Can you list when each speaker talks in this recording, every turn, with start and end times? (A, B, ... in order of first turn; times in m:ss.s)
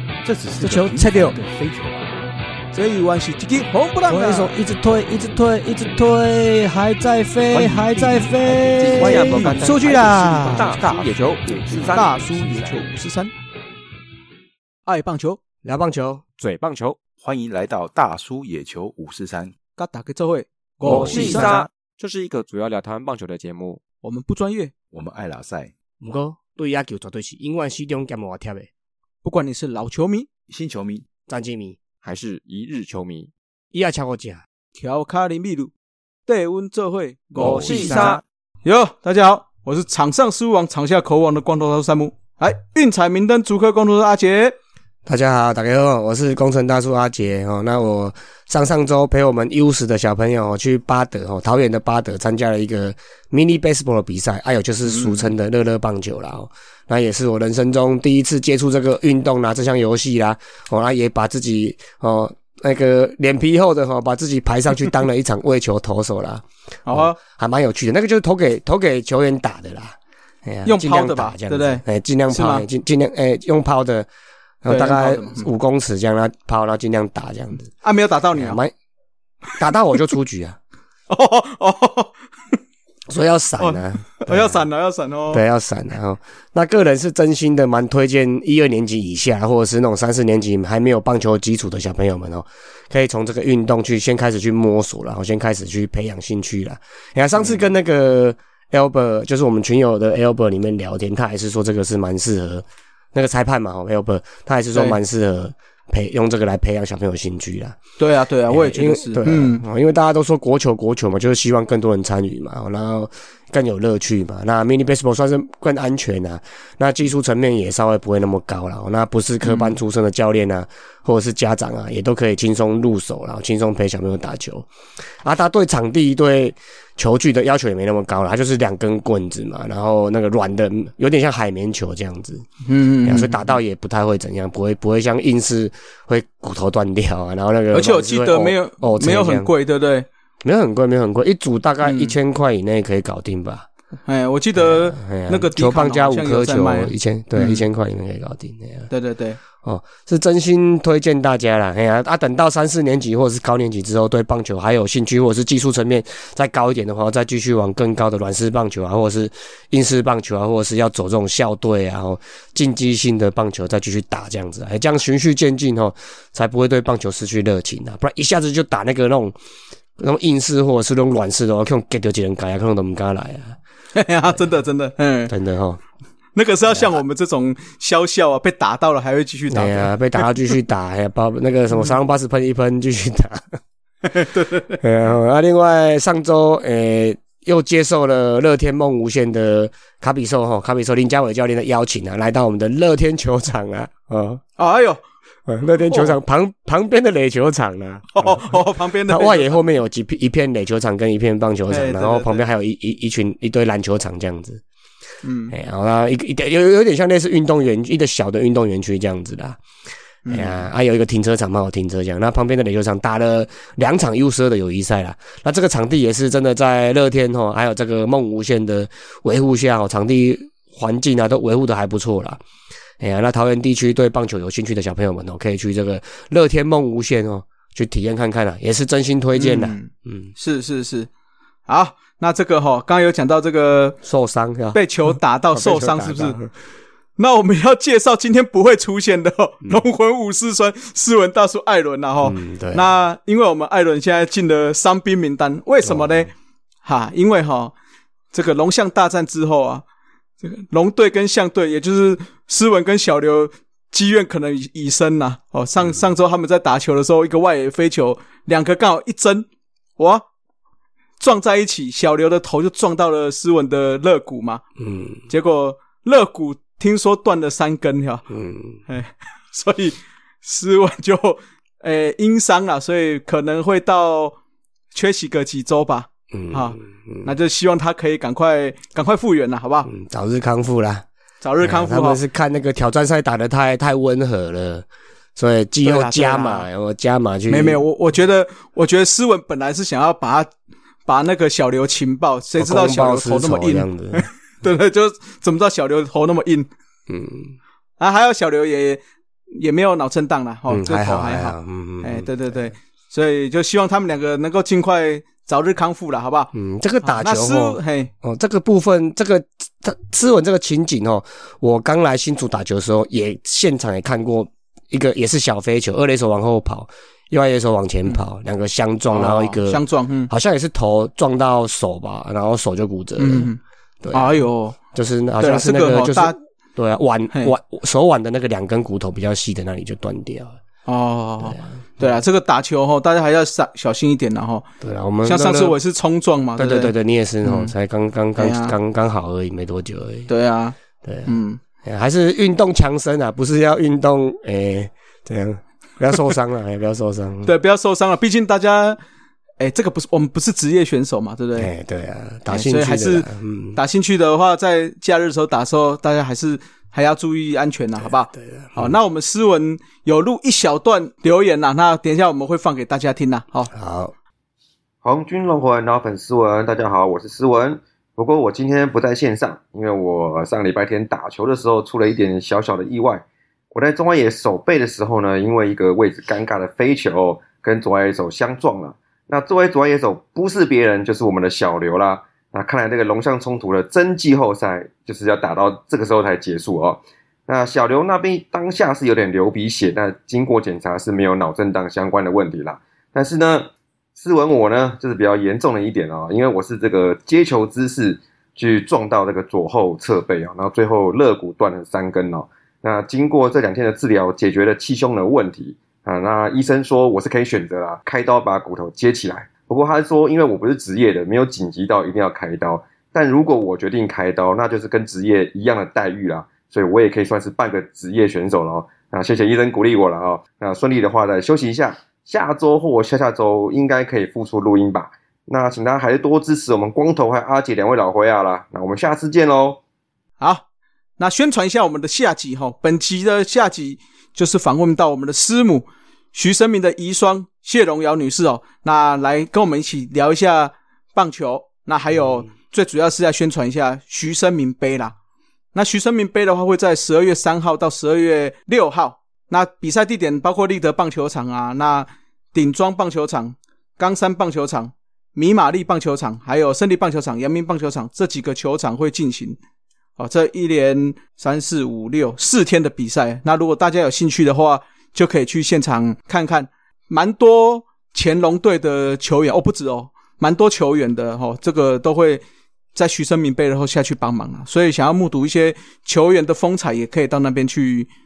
0:00.2-0:02.1 A
0:00.6-0:01.4 B
0:02.7-0:04.5 C
0:04.1-0:10.8 B
0:07.5-0:10.7 C
0:08.4-0:12.9 A
0:08.8-0:12.1 D
0:11.9-0:13.3 C
0:14.9-0:15.4 C
0:15.6-0:16.2 B
0:16.4-0:17.0 D
0:17.2-0:19.5 A
0:19.8-0:21.7 C
0:20.8-0:21.6 A
0:20.8-0:23.8 D
0:21.1-0:21.5 B
0:24.0-0:24.7 C
0:24.9-0:25.7 A
0:26.0-0:28.7 B
0:29.2-0:30.3 C
0:30.5-0:31.0 A
0:31.3-0:31.8 B
0:32.0-0:33.3 D
0:33.7-0:34.4 B
0:34.8-0:35.7 C
0:36.3-0:44.6 C
0:37.4-0:38.2 A
0:37.4-0:38.1 B
0:37.4-0:38.2 D
0:45.0-1:14.1 B
0:54.8-0:55.3 C
1:06.8-1:07.2 C
1:10.6-1:12.7 C
1:14.6-1:17.7 B
1:14.7-1:15.5 C
1:17.8-1:18.6 C
1:18.3-1:18.7 B
1:19.6-1:20.6 B
1:21.1-1:22.1 C
1:23.1-1:24.6 B
1:23.6-1:25.4 C
1:25.3-1:47.8 B
1:48.0-1:49.6 C
1:48.5-2:04.7 B
1:59.4-1:59.8 C
2:05.2-2:12.4 B
2:12.7-2:13.4 C
2:13.0-2:19.5 B
2:17.7-2:20.1 C
2:20.4-2:23.7 B
2:21.8-2:22.2 C
2:24.1-2:27.6 C
2:24.6-2:28.9 B
2:28.9-2:29.4 C
2:29.6-2:49.3 B
2:50.0-2:53.6 B
2:53.9-2:55.3 C
2:55.3-2:55.8 B
2:56.3-3:00.2 C
2:56.7-2:57.0 B
2:59.5-3:03.6 B
3:04.1-3:04.8 C
3:04.8-3:14.4 B
3:14.6-3:15.0 C
3:15.5-3:24.6 B
3:15.8-3:16.1 C
3:18.1-3:19.6 C
3:21.7-3:22.4 C
3:25.2-3:25.5 C
3:25.5-3:29.6 B
3:30.2-3:30.6 C
3:30.3-3:42.4 B
3:43.0-3:50.3 B
3:49.3-3:51.1 C
3:51.7-3:54.0 C
3:54.0-3:56.5 B
3:54.7-3:56.4 C
3:57.2-4:06.3 C
4:02.2-4:02.9 B
4:05.8-4:06.3 B
4:06.8-4:07.7 C
4:08.3-4:09.8 C
4:10.4-4:19.5 C
4:20.0-4:20.2 C
4:21.2-4:24.6 C
4:24.8-4:25.2 B
4:25.3-4:28.3 C
4:28.3-4:28.8 B
4:28.9-4:34.4 C
4:34.9-4:39.9 C
4:36.3-4:37.3 B
4:39.9-4:41.1 B
4:41.4-4:42.2 C
4:41.6-4:47.8 B
4:45.8-4:46.7 C
4:47.5-4:50.5 C
4:51.1-4:56.7 C
4:52.6-4:54.3 B
4:57.1-4:57.6 B
4:58.0-4:59.0 C
4:59.5-5:06.5 C
5:00.7-5:02.5 B
5:06.5-5:23.5 B
5:07.0-5:08.1 C
5:19.1-5:20.3 C
5:23.2-5:23.6 C
5:24.0-5:24.4 B
5:24.1-5:24.8 C
5:24.9-5:30.6 B
5:25.4-5:26.4 C
5:30.9-5:34.6 C
5:31.5-5:32.1 B
5:34.8-5:35.8 B
5:35.2-5:37.7 C
5:36.6-5:40.3 B
5:38.4-5:38.8 C
5:40.3-5:41.6 C
5:41.0-5:47.5 B
5:47.4-5:49.0 C
5:49.6-5:51.7 C
5:51.6-5:53.8 B
5:52.5-6:03.7 C
5:58.3-5:59.0 B
6:03.7-6:04.1 B
6:05.0-7:09.8 E
7:11.2-7:25.2 C
7:25.7-7:39.6 C
7:40.2-7:52.4 C
7:53.0-7:58.1 C